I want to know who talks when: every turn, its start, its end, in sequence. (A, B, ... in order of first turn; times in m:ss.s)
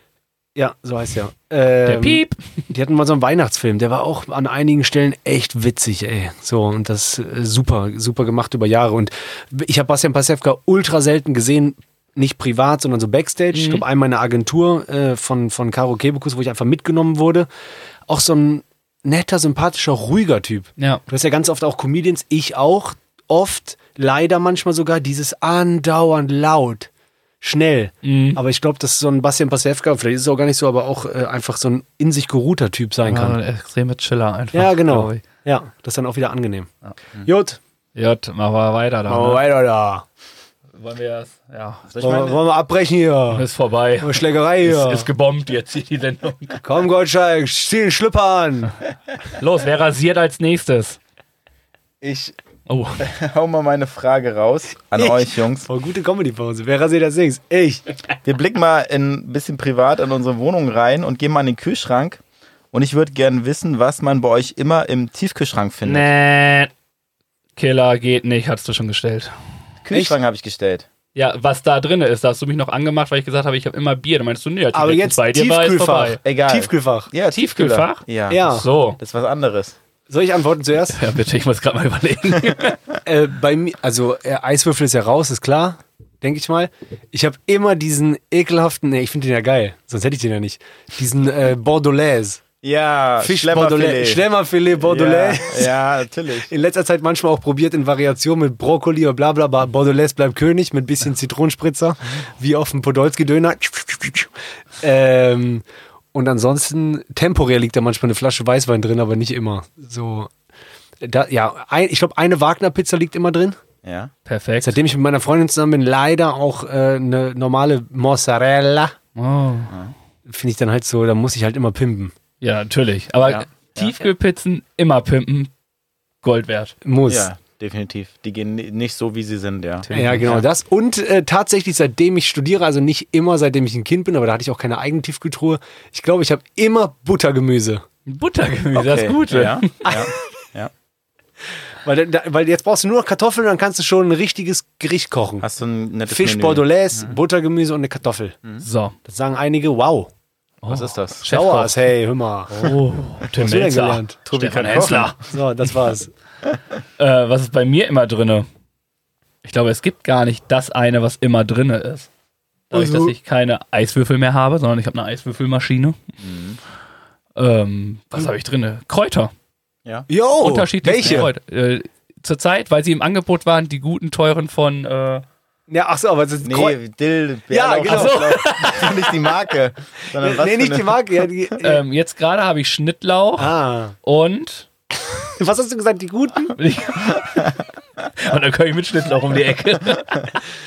0:00.6-0:17.5 A
0:01.9-0:02.4 B
0:13.5-0:13.8 B
0:18.1-0:26.9 A
0:27.4-0:33.4 A
0:28.0-0:28.4 B
0:33.0-0:35.2 B
0:34.5-0:36.7 A
0:37.2-0:37.6 A
0:38.0-0:39.4 B
0:39.1-0:40.0 A
0:40.7-0:41.9 B
0:41.9-0:42.4 C
0:42.0-0:43.4 A
0:43.3-0:46.6 B
0:44.0-0:45.1 A
0:46.6-0:48.8 A
0:49.3-0:51.0 B
0:52.0-0:52.4 C
0:52.7-0:53.0 B
0:53.0-0:55.7 C
0:55.0-0:57.8 A
0:58.2-1:02.2 C
1:02.7-1:06.1 C
1:05.8-1:06.7 B
1:07.6-1:09.3 B
1:09.8-1:10.9 C
1:11.2-1:16.2 B
1:14.7-1:17.1 A
1:16.2-1:19.8 C
1:17.3-1:19.0 B
1:18.3-1:18.7 A
1:20.1-1:21.0 A
1:20.9-1:22.8 B
1:23.0-1:32.4 A
1:32.6-1:34.2 C
1:33.2-1:35.8 A
1:34.8-1:36.5 C
1:36.5-1:50.3 A
1:51.0-1:53.6 A
1:53.8-1:54.1 C
1:54.3-1:54.8 B
1:54.6-1:59.0 A
1:59.2-1:59.7 B
2:00.3-2:02.1 A
2:02.4-2:05.5 B
2:03.2-2:03.9 C
2:06.2-2:06.8 B
2:06.8-2:07.3 A
2:07.1-2:10.4 C
2:09.9-2:10.4 B
2:09.9-2:17.8 A
2:18.1-2:20.0 B
2:18.7-2:20.7 C
2:19.8-2:20.1 A
2:21.8-2:25.5 A
2:25.4-2:27.2 C
2:26.1-2:28.4 A
2:28.6-2:29.0 B
2:29.0-2:30.1 A
2:30.6-2:31.8 B
2:30.7-2:31.2 C
2:31.3-2:32.7 A
2:32.6-2:35.2 B
2:33.3-2:36.1 A
2:34.3-2:35.1 C
2:37.0-2:38.5 B
2:39.4-2:42.1 B
2:42.7-2:46.0 B
2:42.7-2:43.2 A
2:46.2-2:46.6 C
2:47.4-2:49.3 B
2:50.1-2:51.3 A
2:50.4-2:55.2 B
2:55.7-2:56.8 A
2:56.4-3:01.1 C
2:57.5-2:58.3 A
2:57.9-2:59.2 B
3:00.2-3:01.8 A
3:01.6-3:04.7 B
3:03.4-3:04.0 A
3:05.4-3:06.6 A
3:06.6-3:07.6 B
3:08.2-3:10.4 B